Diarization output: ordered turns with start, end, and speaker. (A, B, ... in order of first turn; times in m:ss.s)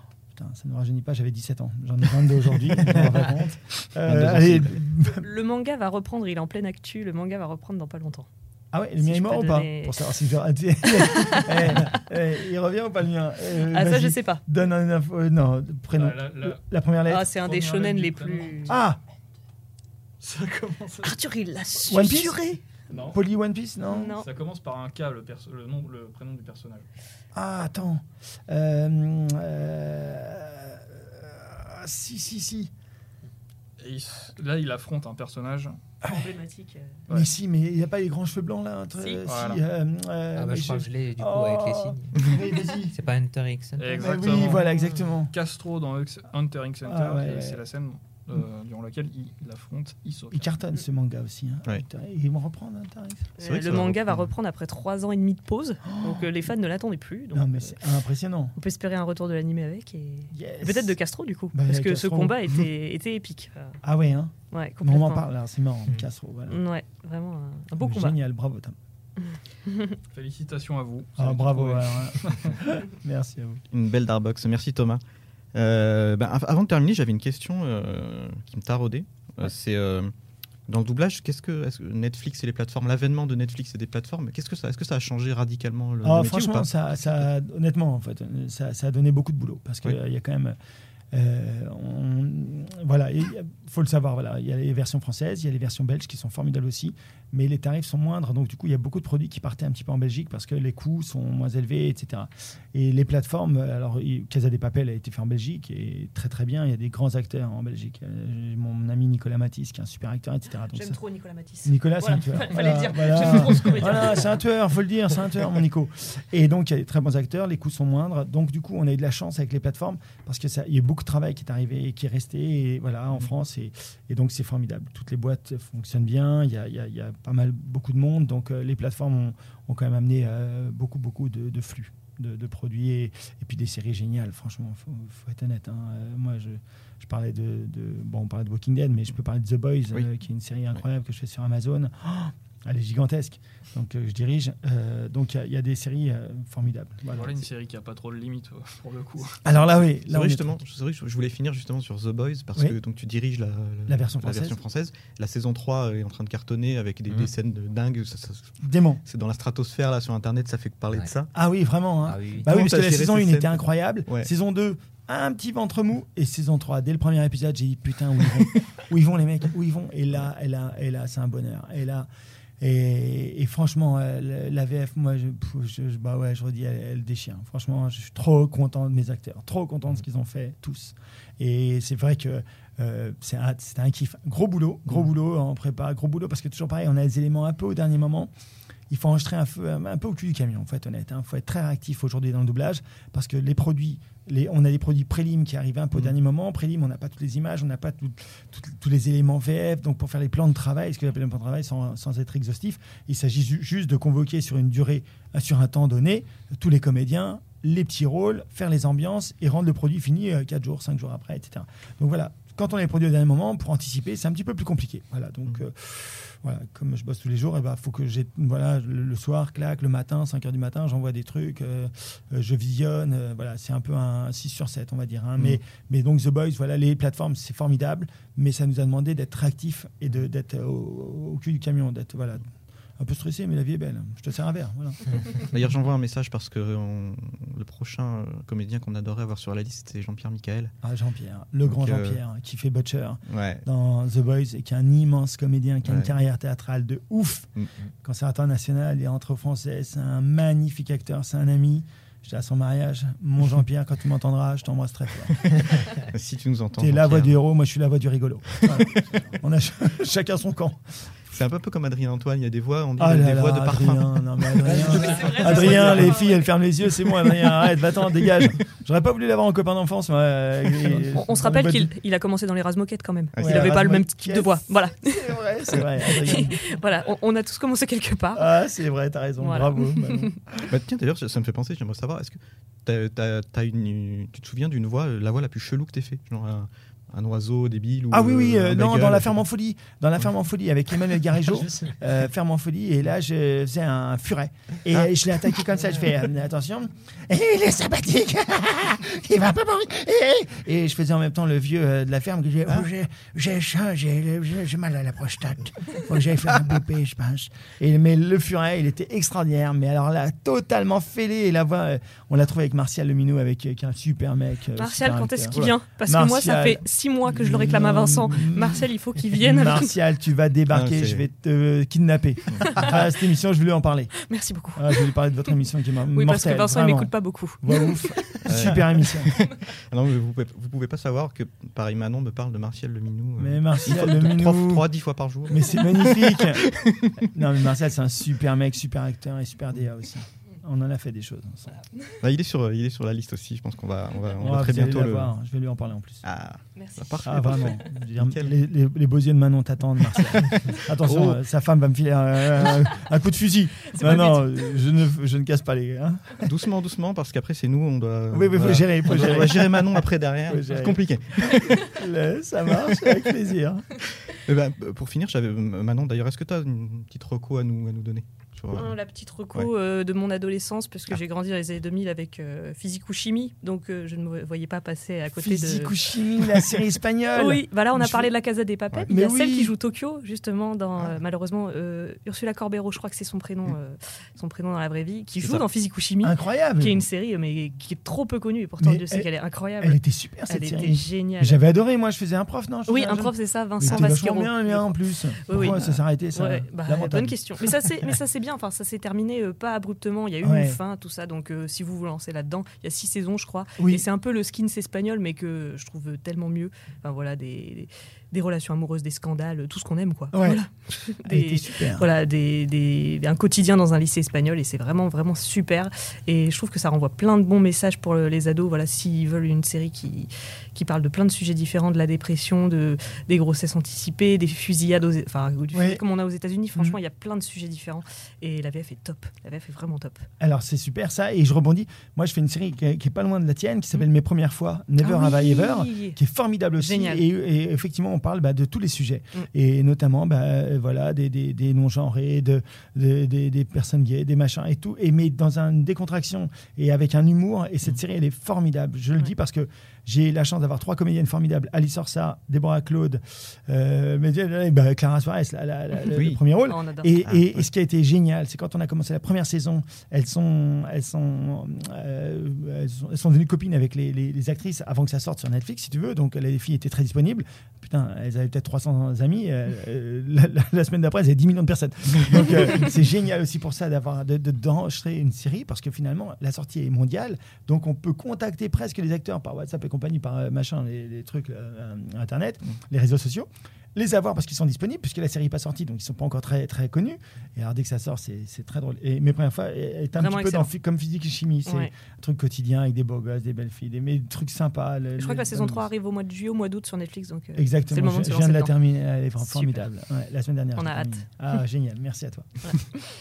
0:00.3-0:05.3 A
0:04.1-0:04.8 B
0:05.0-0:08.3 C
0:08.7-0:17.3 A
0:09.0-0:10.0 C
0:11.0-0:11.9 C
0:13.6-0:14.4 C
0:15.9-0:16.6 D
0:17.1-0:18.8 C
0:17.4-0:18.8 D
0:18.7-0:19.0 A
0:20.2-0:21.2 D
0:21.0-0:22.6 C
0:21.8-0:24.2 A
0:22.9-0:23.2 D
0:23.9-0:24.3 C
0:24.2-0:26.9 D
0:27.3-0:32.7 A
0:33.8-0:35.8 D
0:36.0-0:36.3 A
0:36.0-0:37.0 C
0:37.1-0:43.0 A
0:39.0-0:39.2 C
0:39.2-0:39.6 D
0:40.3-0:45.0 E
0:43.8-0:44.7 D
0:44.0-0:45.3 A
0:45.3-0:50.5 D
0:46.8-0:47.6 A
0:50.3-0:53.3 A
0:53.4-0:57.8 C
0:53.4-0:54.3 B
0:55.8-0:56.4 A
0:57.3-0:58.6 A
0:58.6-1:03.8 C
1:00.3-1:01.0 A
1:01.5-1:02.5 A
1:03.8-1:06.6 A
1:04.5-1:05.3 C
1:06.5-1:08.2 C
1:07.8-1:08.8 A
1:09.7-1:10.0 C
1:10.1-1:12.6 D
1:11.2-1:13.6 A
1:13.7-1:15.0 B
1:15.5-1:20.1 B
1:20.7-1:27.3 B
1:26.0-1:30.6 A
1:31.1-1:51.0 A
1:50.7-1:54.4 C
1:51.6-2:27.4 A
2:27.1-2:29.4 D
2:29.4-2:30.6 A
2:29.5-2:41.3 B
2:33.9-2:34.6 A
2:38.6-2:39.0 A
2:40.9-2:41.2 E
2:41.3-2:52.1 A
2:42.0-2:42.6 E
2:42.5-2:44.3 B
2:52.6-3:08.3 A
3:08.9-3:52.5 A
3:53.0-3:55.2 A
3:55.4-4:00.7 B
4:00.8-4:07.5 A
4:01.7-4:02.2 B
4:03.3-4:03.6 B
4:05.8-4:06.1 B
4:08.0-4:15.5 A
4:15.9-4:17.4 B
4:16.8-4:20.8 A
4:21.3-4:26.0 B
4:23.0-4:31.9 A
4:25.1-4:26.1 D
4:25.1-4:26.3 C
4:31.1-4:38.5 C
4:33.3-4:33.8 B
4:33.4-4:36.6 A
4:38.3-4:40.6 A
4:39.4-4:40.4 C
4:40.7-4:49.4 B
4:48.1-5:24.2 A
5:14.8-5:19.9 C
5:20.7-5:21.2 B
5:24.2-5:25.1 C
5:24.8-5:29.3 A
5:26.1-5:28.5 C
5:28.5-5:37.2 B
5:33.4-5:34.9 A
5:35.5-5:41.8 A
5:42.2-5:45.3 B
5:44.4-5:46.2 A
5:46.2-5:48.6 B
5:46.8-5:47.6 C
5:47.2-5:56.5 A
5:50.6-5:51.4 B
5:53.9-5:54.7 C
5:56.4-6:01.9 B
5:58.3-6:03.9 A
6:04.2-6:09.0 B
6:08.7-6:16.0 C
6:15.3-6:18.3 A
6:17.4-6:31.6 C
6:19.1-6:19.7 A
6:26.2-6:27.0 A
6:28.8-6:38.1 A
6:32.9-7:10.3 C
6:40.4-6:40.8 A
6:43.8-6:44.0 A
6:50.3-6:50.6 A
6:51.2-6:52.1 A
7:05.7-7:06.0 A
7:10.4-8:15.9 A
7:15.0-7:16.2 C
7:16.8-7:17.3 C
7:36.1-7:36.4 B
7:36.6-7:37.2 C
7:37.2-7:37.7 B
8:10.2-8:10.7 C
8:11.7-8:11.9 C
8:15.2-8:18.8 C
8:17.6-8:22.8 A
8:19.4-8:19.9 C
8:20.8-8:21.3 C